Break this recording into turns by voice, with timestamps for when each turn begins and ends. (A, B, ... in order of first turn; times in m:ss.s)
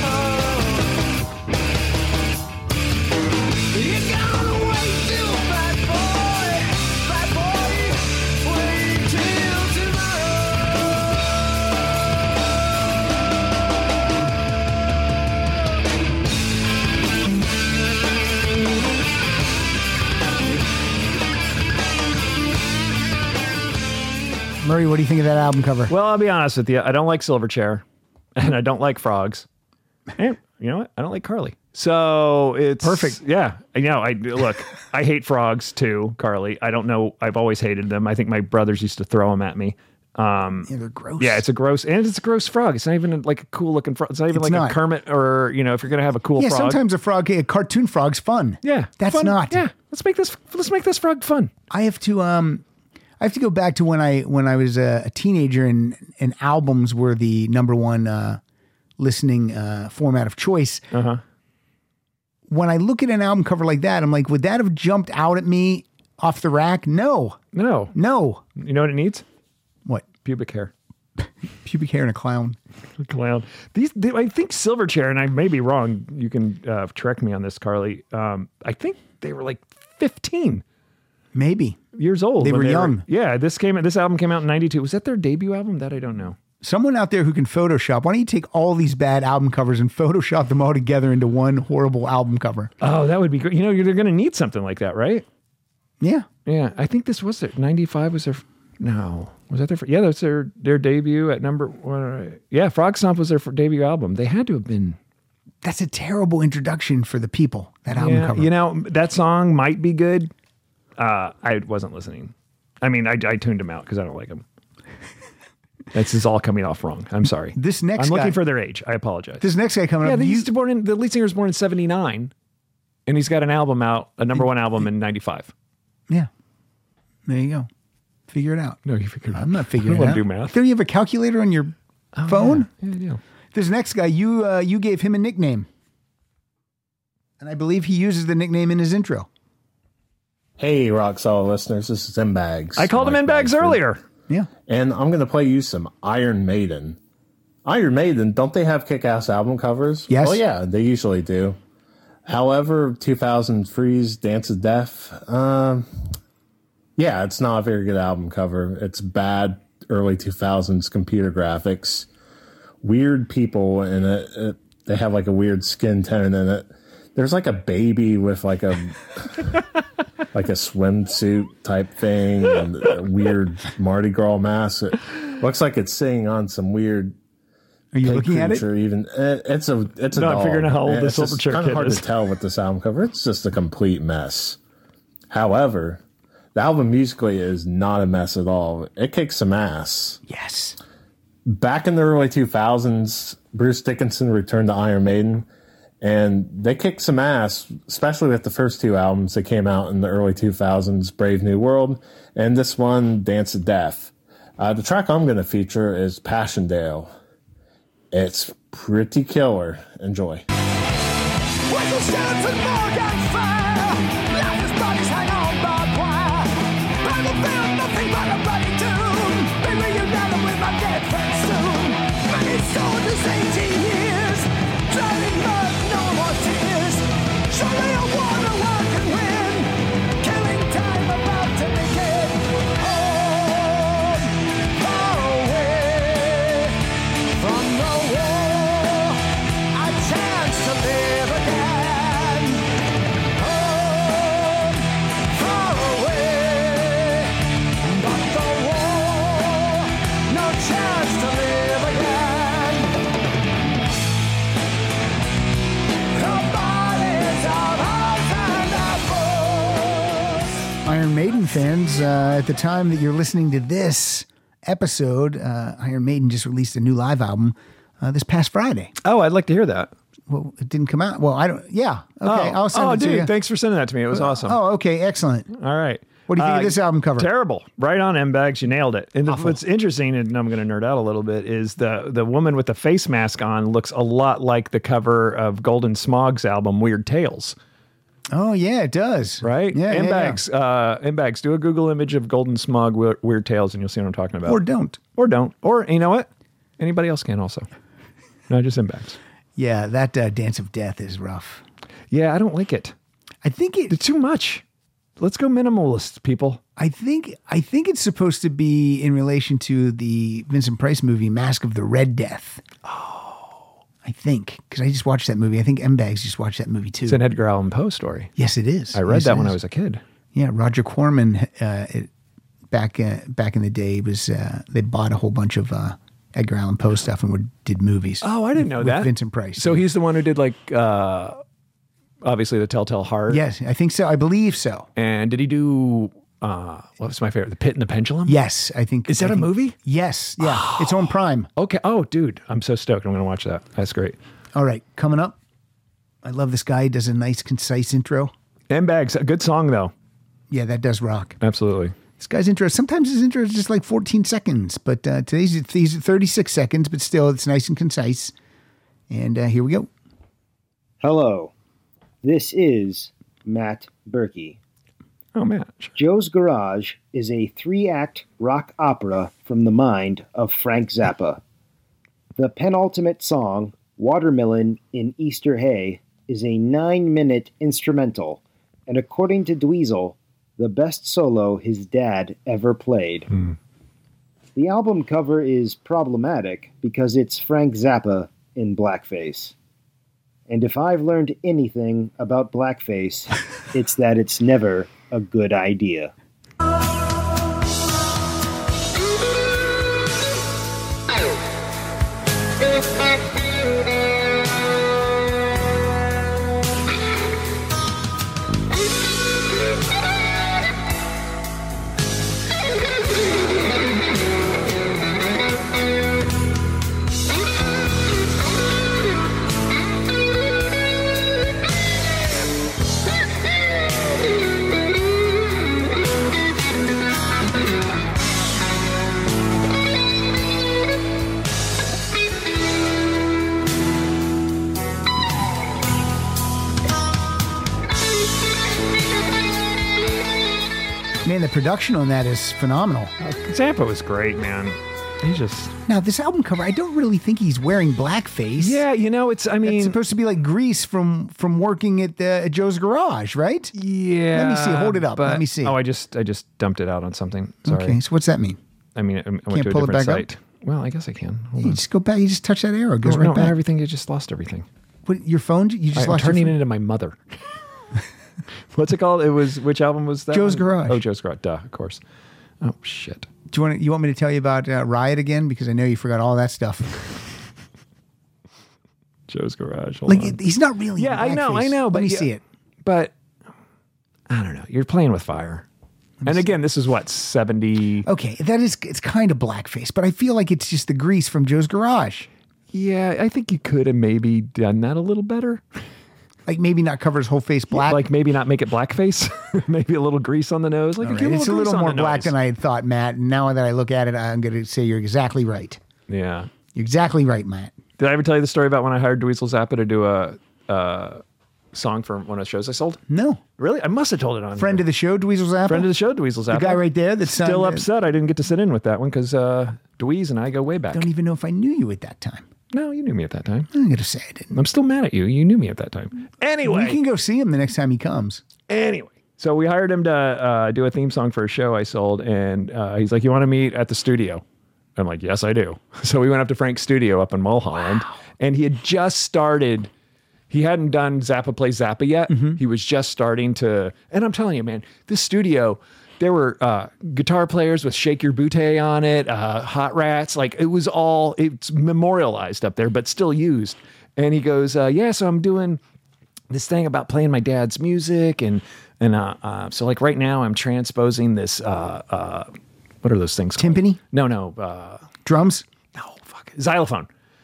0:24.6-0:25.9 A
0:25.9-0:27.8 B
0:28.4-0:29.4 B
0:30.2-0:40.7 B
0:32.8-0:33.2 A
0:40.7-0:41.4 A
0:41.2-0:46.8 B
0:44.3-0:44.8 A
0:46.4-0:49.6 A
0:48.6-0:51.5 B
0:51.7-0:52.6 A
0:53.2-0:58.4 A
0:59.0-1:00.8 A
1:00.9-1:01.2 B
1:02.5-1:07.4 A
1:07.5-1:07.9 B
1:07.9-1:08.4 A
1:08.6-1:09.2 B
1:10.2-1:10.7 B
1:11.6-1:12.6 A
1:13.0-1:20.6 B
1:21.3-1:21.8 A
1:22.0-1:26.4 B
1:22.4-1:23.0 A
1:26.6-1:32.7 A
1:32.8-1:35.2 B
1:36.0-1:36.3 A
1:36.5-1:45.0 B
1:45.6-1:48.5 A
1:47.9-1:50.3 B
1:51.0-1:54.4 B
1:55.9-1:59.5 B
1:57.5-1:58.4 A
1:59.4-2:00.5 A
2:00.0-2:02.3 B
2:03.1-2:05.5 B
2:04.4-2:04.8 A
2:07.3-2:07.7 A
2:08.3-2:08.8 A
2:08.8-2:10.6 B
2:09.3-2:11.7 A
2:12.2-2:13.2 B
2:12.3-2:12.7 A
2:13.5-2:15.7 A
2:17.4-2:19.3 A
2:20.6-2:23.8 C
2:22.8-2:24.0 B
2:24.7-2:27.0 C
2:27.6-2:31.6 C
2:30.1-2:30.4 A
2:32.3-2:35.9 C
2:37.0-2:42.1 C
2:42.8-2:49.1 C
2:50.3-2:57.1 C
2:57.9-2:58.6 A
2:58.0-3:04.6 C
3:00.1-3:02.1 B
3:05.3-3:06.0 C
3:06.6-3:10.2 C
3:10.3-3:10.8 A
3:11.5-3:15.5 C
3:16.0-3:27.1 C
3:28.1-3:30.4 C
3:31.7-3:36.5 D
3:37.0-3:49.6 D
3:50.2-3:54.1 D
3:54.8-3:56.4 D
3:57.4-3:58.8 D
4:00.0-4:02.4 D
4:03.4-4:04.5 D
4:05.4-4:07.0 D
4:07.9-4:09.6 D
4:10.3-4:12.6 D
4:16.2-4:20.1 D
4:20.8-4:28.9 A
4:29.0-4:29.9 B
4:30.3-4:33.3 A
4:32.2-4:34.6 B
4:34.1-4:35.5 A
4:35.5-4:47.6 B
4:36.3-4:37.3 A
4:39.3-4:39.6 A
4:48.3-4:50.4 A
4:49.4-4:54.6 B
4:54.5-4:55.0 A
4:55.2-4:56.3 B
4:56.8-4:57.7 B
4:58.5-4:59.2 B
4:59.6-5:01.6 A
5:02.1-5:03.0 B
5:03.4-5:04.0 A
5:03.9-5:04.6 B
5:05.2-5:06.6 B
5:06.8-5:12.6 A
5:12.9-5:13.5 B
5:14.0-5:17.2 A
5:17.1-5:18.3 B
5:18.4-5:19.6 A
5:18.9-5:20.0 B
5:20.3-5:22.1 A
5:22.7-5:29.8 A
5:28.2-5:31.4 B
5:32.2-5:33.4 B
5:33.3-5:34.9 A
5:35.0-5:38.4 B
5:38.3-5:41.5 A
5:39.1-5:39.8 B
5:40.4-5:44.2 B
5:44.6-5:45.4 A
5:46.2-5:48.3 A
5:48.7-5:49.9 B
5:50.5-5:51.4 A
5:51.4-5:52.0 B
5:52.2-5:58.3 A
5:59.1-5:59.9 A
6:01.0-6:01.5 E
6:02.2-6:04.6 E
6:05.4-6:05.9 B
6:06.0-6:11.4 E
6:12.4-6:23.3 E
6:24.6-6:29.5 E
6:30.5-6:36.1 E
7:21.2-7:23.1 A
7:23.2-7:25.7 B
7:25.9-7:28.8 A
7:28.6-7:30.0 B
7:29.6-7:33.7 A
7:33.8-7:38.0 B
7:34.3-7:35.8 A
7:37.6-7:38.6 A
7:39.0-7:41.8 B
7:39.5-7:40.3 A
7:41.6-7:43.5 A
7:43.0-7:44.7 B
7:45.1-7:46.5 A
7:46.0-7:47.2 B
7:48.7-7:52.0 B
7:50.3-7:51.0 A
7:52.6-7:53.3 B
7:53.5-7:57.0 A
7:59.3-8:00.4 B
8:00.1-8:02.4 A
8:01.0-8:02.3 B
8:02.8-8:03.1 B
8:04.3-8:05.6 B
8:06.2-8:08.1 B
8:08.0-8:12.3 A
8:12.7-8:15.6 B
8:16.5-8:18.0 A
8:17.7-8:22.3 B
8:21.0-8:25.8 A
8:26.1-8:26.5 B
8:26.8-8:27.7 A
8:28.0-8:31.2 B
8:31.7-8:33.0 B
8:33.1-8:33.4 A
8:33.6-8:34.8 B
8:34.6-8:35.9 A
8:35.7-8:41.1 B
8:36.5-8:37.9 A
8:40.9-8:42.5 A
8:42.7-8:43.7 B
8:43.7-8:44.5 A
8:44.5-8:47.0 B
8:46.6-8:48.4 A
8:48.7-8:54.4 B
8:55.0-8:59.9 B
9:00.5-9:15.8 B
9:02.3-9:02.6 A
9:16.5-9:22.5 B
9:23.0-9:25.1 B
9:23.6-9:24.0 A
9:25.2-9:25.6 A
9:26.0-9:27.1 B